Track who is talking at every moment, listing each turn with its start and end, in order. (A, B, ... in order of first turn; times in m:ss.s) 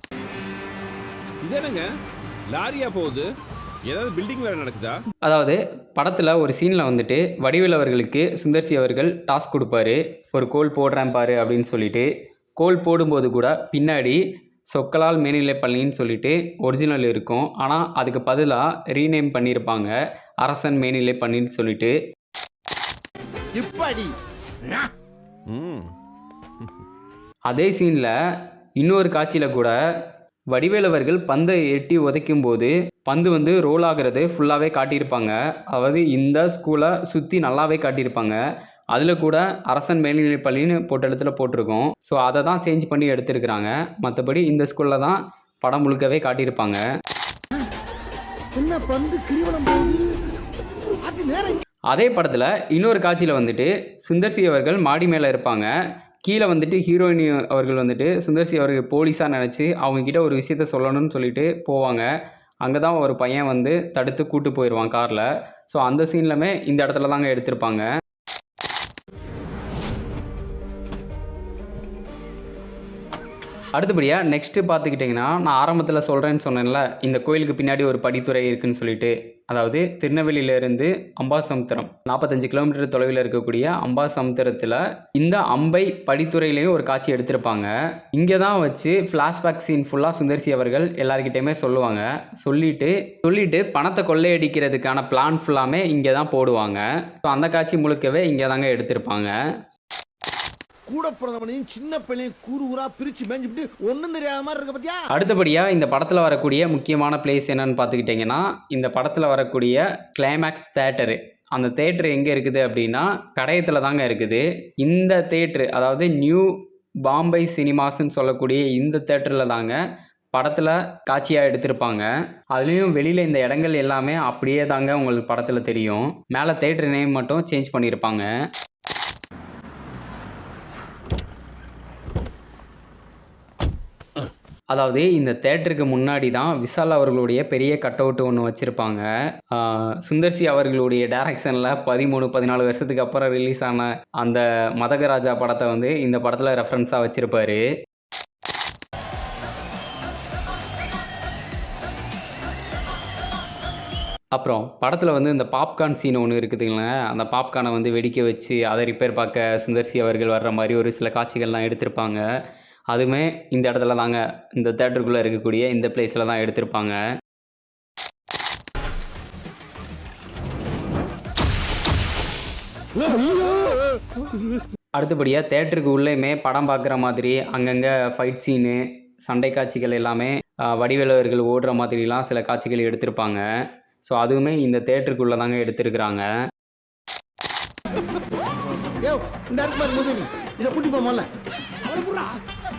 0:01.4-0:01.9 A
0:02.5-0:03.3 A
0:03.9-0:05.0 A
0:05.2-0:22.0 B
0:23.6-0:24.1 C
0:25.5-0:25.9 A
0:27.5-0:28.2 B
0:28.8-0:29.8 B
0:30.5-0:38.4 B
0:38.9-0:46.8 B
0:48.6-0:50.2 C
0:51.0-0:51.6 C
0:51.9-0:55.7 B
0:56.2-1:02.1 B
1:02.6-1:07.9 B
1:13.8-1:39.3 B
1:40.9-1:45.0 C
1:45.1-1:59.8 B
2:00.3-2:08.3 B
2:14.7-2:27.7 B
2:34.4-2:42.2 B
2:42.9-2:47.0 B
2:55.0-3:03.5 B
3:04.0-3:06.3 B
3:09.0-3:11.3 C
3:11.8-3:12.3 C